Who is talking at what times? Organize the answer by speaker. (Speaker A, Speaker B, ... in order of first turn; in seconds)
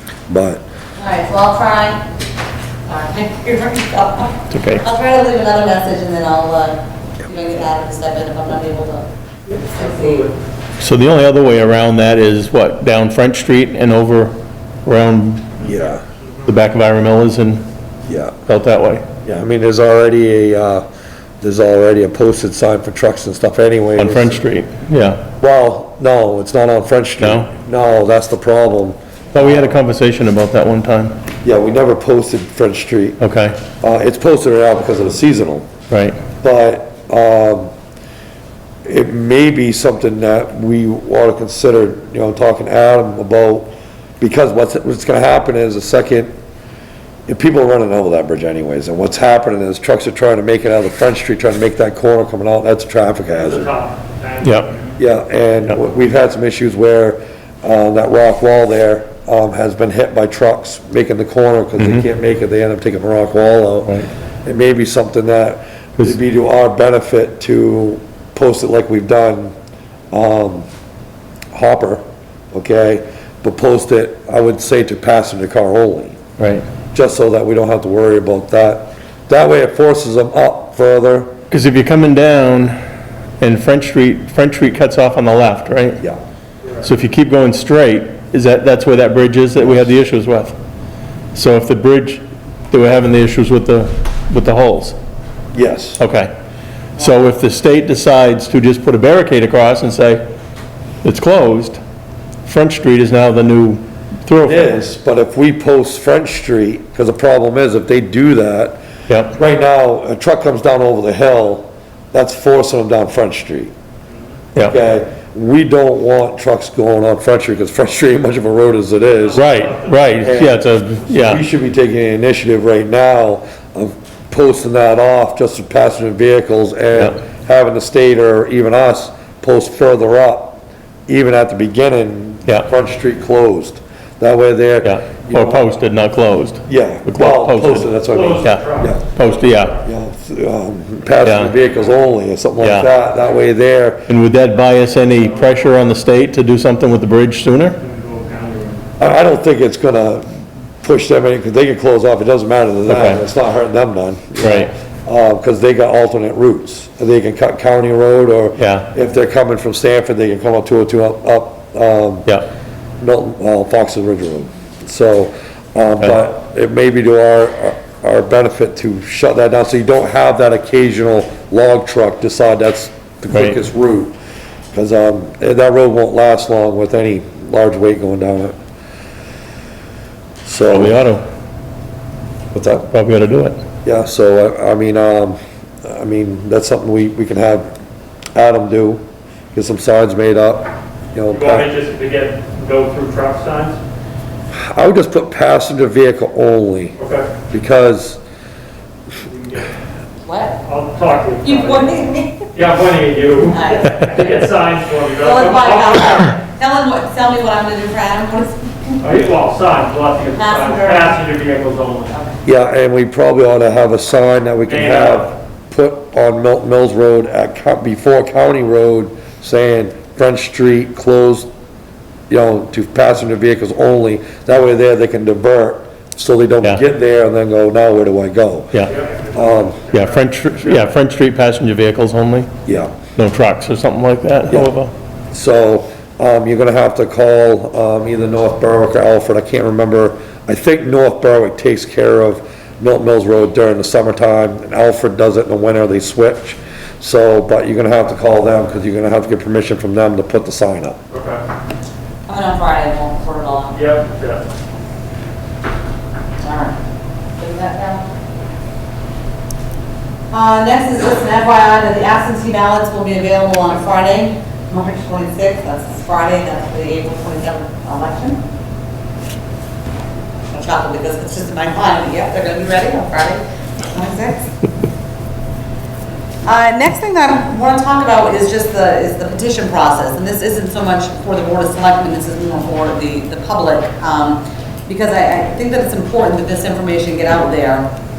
Speaker A: 0.3-0.6, 15.6-16.0, 18.1-18.4, 19.2-20.8, 21.4-24.4, 25.4-29.0, 31.4-33.2, 33.8-35.7, 36.4-37.7, 38.9-46.3, 47.3-53.7, 55.0-69.5, 70.1-70.7, 71.5-76.2, 76.9-81.3, 89.6-89.9, 95.5-96.0, 104.4-108.8, 109.3-113.7, 114.6-119.5, 120.2-135.7, 136.7-139.0, 139.8-144.1, 149.0-150.3, 150.8-162.3, 163.0-174.2, 174.7-178.6, 180.4-181.0, 182.5-182.9, 183.8-187.7, 188.3-191.7, 194.5-196.9, 197.5-198.2, 212.4-221.5, 222.3-228.8, 229.3-229.8, 232.6-232.9, 234.5-234.7, 235.3-251.0
Speaker B: 1.0-2.0, 2.9-9.1, 9.7-10.3, 200.2-200.6, 201.4-202.6, 203.5-204.3, 205.2-209.0, 210.3-211.2, 252.3-253.8, 256.4-256.7, 257.4-258.0, 260.3-268.4, 270.5-274.5, 276.4-287.9
Speaker C: 4.5-4.8, 10.8-15.6, 16.5-17.7, 18.5-19.1, 24.0-25.2, 27.2-27.5, 29.3-31.2, 33.2-33.6, 35.9-36.2, 54.4-54.7, 61.8-62.1, 76.4-76.6, 81.5-82.8, 83.4-86.0, 86.8-90.5, 91.3-95.0, 96.0-96.3, 97.0-100.2, 101.0-101.8, 102.4-104.7, 109.1-109.3, 119.3-121.4, 134.8-139.7, 141.2-141.5, 142.6-142.9, 144.1-147.8, 152.9-153.2, 154.4-154.7, 158.6-158.9, 173.3-173.6, 180.7-181.2, 182.8-183.6, 229.9-232.5, 233.2-234.9
Speaker D: 9.7-10.4, 53.4-55.0, 119.2-120.5, 138.1-139.9, 145.1-145.6, 147.8-148.8, 191.3-193.8, 197.0-197.3, 199.2-199.7, 200.6-201.9, 202.5-206.3, 209.0-212.2, 214.7-215.3, 228.9-230.9, 251.1-251.4, 253.7-254.5